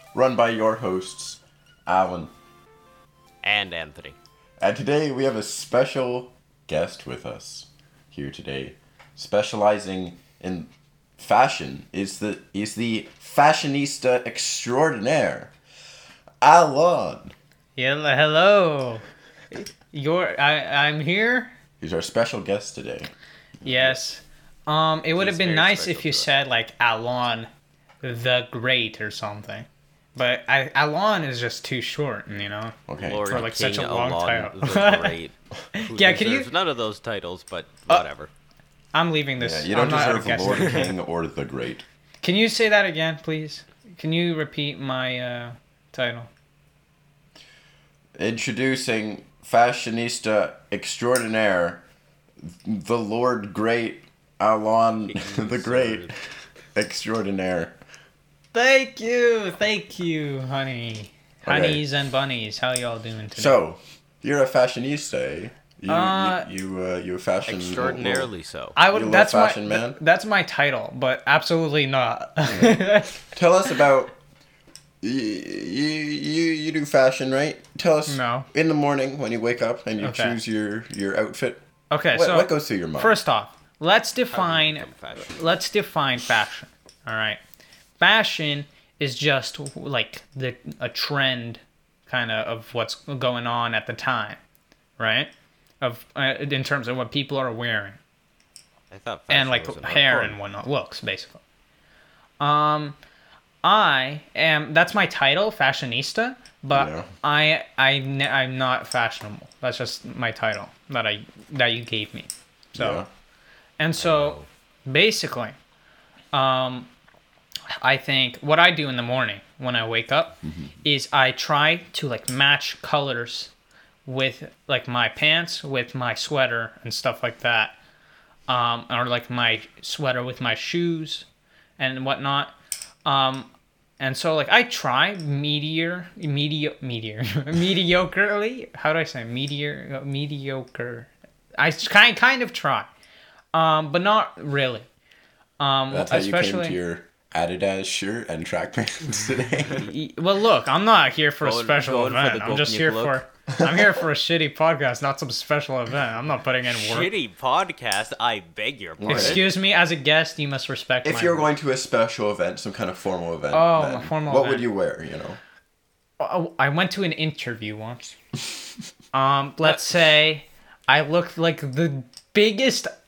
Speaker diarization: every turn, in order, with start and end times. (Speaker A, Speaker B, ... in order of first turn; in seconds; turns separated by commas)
Speaker A: 0.1-2.3, Speaker B: 3.4-4.2, Speaker A: 4.6-15.5, Speaker A: 16.4-17.3, Speaker C: 17.8-21.5, Speaker A: 21.8-24.0, Speaker C: 23.6-27.5, Speaker B: 25.2-26.3, Speaker C: 28.0-35.2, Speaker A: 32.9-33.5, Speaker B: 33.0-38.3, Speaker C: 35.7-36.5, Speaker C: 38.9-40.9, Speaker A: 39.4-41.9, Speaker C: 42.2-46.3, Speaker A: 48.2-51.8, Speaker A: 52.4-56.2, Speaker B: 55.1-56.1, Speaker A: 56.7-57.8, Speaker C: 58.5-63.6, Speaker A: 61.5-61.9, Speaker A: 63.4-68.3, Speaker C: 65.9-66.5, Speaker B: 67.5-68.8, Speaker C: 68.8-73.3, Speaker A: 68.9-70.0, Speaker A: 72.5-72.8, Speaker A: 73.3-74.1, Speaker A: 75.0-81.6, Speaker C: 78.1-78.5, Speaker C: 80.0-80.4, Speaker C: 81.9-87.4, Speaker A: 82.1-83.2, Speaker B: 84.3-85.5, Speaker C: 88.0-94.4, Speaker C: 95.0-95.3, Speaker C: 95.8-98.0, Speaker B: 98.9-100.3, Speaker C: 99.3-101.4, Speaker C: 102.4-103.0, Speaker C: 103.6-113.1, Speaker A: 106.7-107.1, Speaker A: 112.7-113.1, Speaker C: 113.8-115.6, Speaker C: 116.3-116.9, Speaker C: 117.8-123.5, Speaker A: 120.4-120.7, Speaker C: 124.0-127.8, Speaker C: 128.5-131.2, Speaker C: 131.8-132.5, Speaker C: 133.0-142.9, Speaker C: 143.5-144.9, Speaker C: 145.6-146.8, Speaker A: 145.9-149.9, Speaker C: 149.8-157.1, Speaker B: 151.4-153.2, Speaker A: 153.5-154.0, Speaker B: 156.7-159.5, Speaker A: 159.0-159.4, Speaker C: 159.1-161.5, Speaker A: 161.0-165.4, Speaker C: 163.5-164.7, Speaker C: 166.2-168.1, Speaker C: 169.1-172.9